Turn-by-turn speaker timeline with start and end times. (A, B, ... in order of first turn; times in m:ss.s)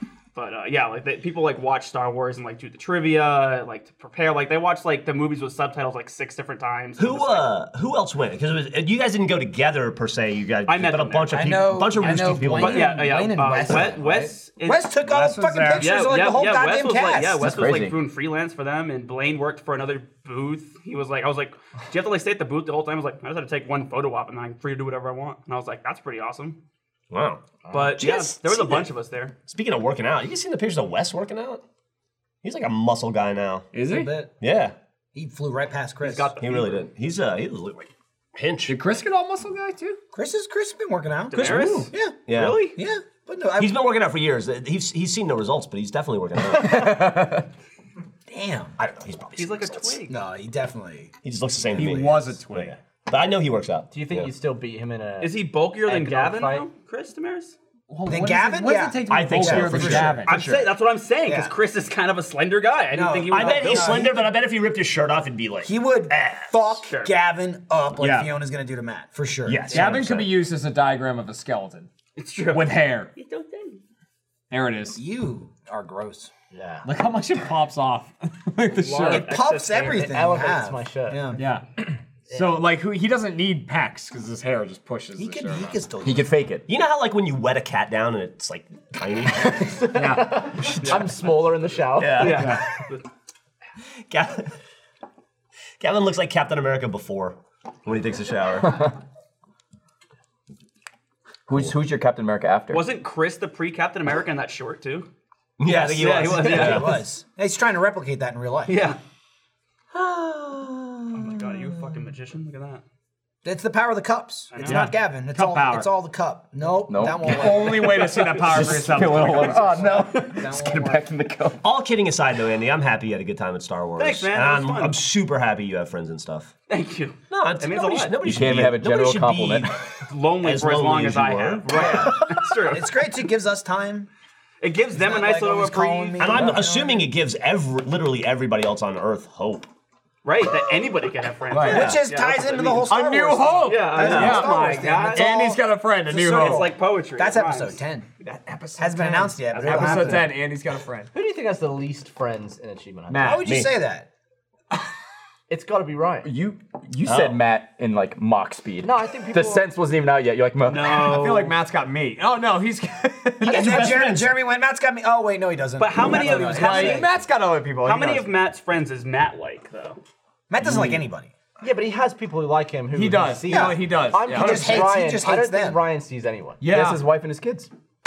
0:00.3-0:07.6 A
0:07.0-0:13.1 B
0:10.7-0:11.6 A
0:11.3-0:17.6 C
0:12.1-0:12.4 D
0:12.6-0:14.9 A
0:15.0-0:16.0 D
0:15.8-0:26.6 A
0:17.4-0:18.0 E
0:27.1-0:27.4 B
0:27.7-0:29.3 A
0:28.0-0:28.8 C
0:29.5-0:31.6 B
0:32.4-0:33.7 B
0:33.7-0:34.1 D
0:33.8-0:34.3 C
0:34.4-0:34.8 B
0:35.2-0:36.3 C
0:36.0-0:36.8 A
0:36.4-0:38.8 B
0:38.7-0:40.0 D
0:40.1-0:43.9 C
0:41.3-0:42.8 A
0:42.3-0:42.6 B
0:43.6-0:47.0 B
0:46.5-0:47.4 E
0:48.3-0:51.1 C
0:49.0-0:49.8 B
0:49.4-0:50.2 A
0:51.2-0:54.3 B
0:51.7-0:52.8 D
0:53.9-0:56.7 F
0:55.2-0:57.6 A
0:57.9-1:00.7 D
0:58.1-1:00.3 C
0:59.1-1:00.3 B
1:00.2-1:04.1 A
1:01.3-1:01.5 C
1:02.9-1:04.3 C
1:03.3-1:06.5 B
1:05.6-1:10.2 C
1:06.9-1:07.1 A
1:08.0-1:08.3 D
1:09.5-1:11.9 D
1:09.5-1:10.2 B
1:12.2-1:13.8 A
1:12.5-1:13.1 D
1:14.5-1:15.0 D
1:14.9-1:16.3 C
1:16.5-1:16.9 F
1:16.8-1:19.3 D
1:18.7-1:20.1 A
1:19.1-1:21.4 C
1:19.8-1:21.4 F
1:21.4-1:21.6 D
1:22.3-1:25.8 D
1:25.2-1:26.3 C
1:26.0-1:26.6 E
1:26.7-1:29.8 B
1:29.6-1:32.4 F
1:29.9-1:31.1 D
1:32.0-1:32.7 B
1:32.2-1:33.0 A
1:32.2-1:32.6 D
1:34.1-1:34.5 B
1:35.8-1:38.9 B
1:41.5-1:42.9 E
1:42.7-1:45.1 A
1:45.6-1:47.0 B
1:45.6-1:48.9 C
1:45.8-1:47.0 A
1:48.7-1:49.0 A
1:50.0-1:50.8 C
1:51.1-1:52.8 A
1:51.5-1:51.9 C
1:53.4-2:01.1 C
1:54.5-1:54.9 A
1:54.6-1:55.9 D
1:56.9-1:57.8 E
1:57.1-2:00.0 D
1:58.5-2:01.6 E
2:01.6-2:06.5 B
2:04.0-2:05.0 A
2:06.7-2:08.2 A
2:07.3-2:09.8 B
2:08.2-2:09.7 E
2:10.1-2:13.0 A
2:10.4-2:12.3 B
2:11.7-2:14.1 C
2:14.6-2:16.5 A
2:14.9-2:17.1 C
2:16.2-2:19.7 B
2:20.2-2:22.9 A
2:21.5-2:22.0 D
2:21.6-2:28.1 C
2:22.9-2:26.7 D
2:23.6-2:25.3 A
2:24.0-2:24.6 B
2:26.1-2:27.8 A
2:28.2-2:31.1 D
2:28.8-2:30.4 C
2:31.1-2:33.4 F
2:33.1-2:33.5 D
2:33.2-2:34.1 C
2:35.5-2:36.3 F
2:36.2-2:41.1 E
2:37.0-2:37.4 B
2:38.8-2:39.7 F
2:40.6-2:41.6 A
2:40.9-2:44.0 D
2:43.4-2:44.4 B
2:43.4-2:47.1 C
2:45.8-2:47.1 A
2:46.2-2:48.3 D
2:47.8-2:50.0 A
2:50.5-2:51.3 C
2:50.6-2:51.0 D
2:51.6-2:56.7 F
2:52.9-2:54.8 D
2:53.5-2:55.8 C
2:56.6-2:57.0 D
2:56.7-2:57.7 E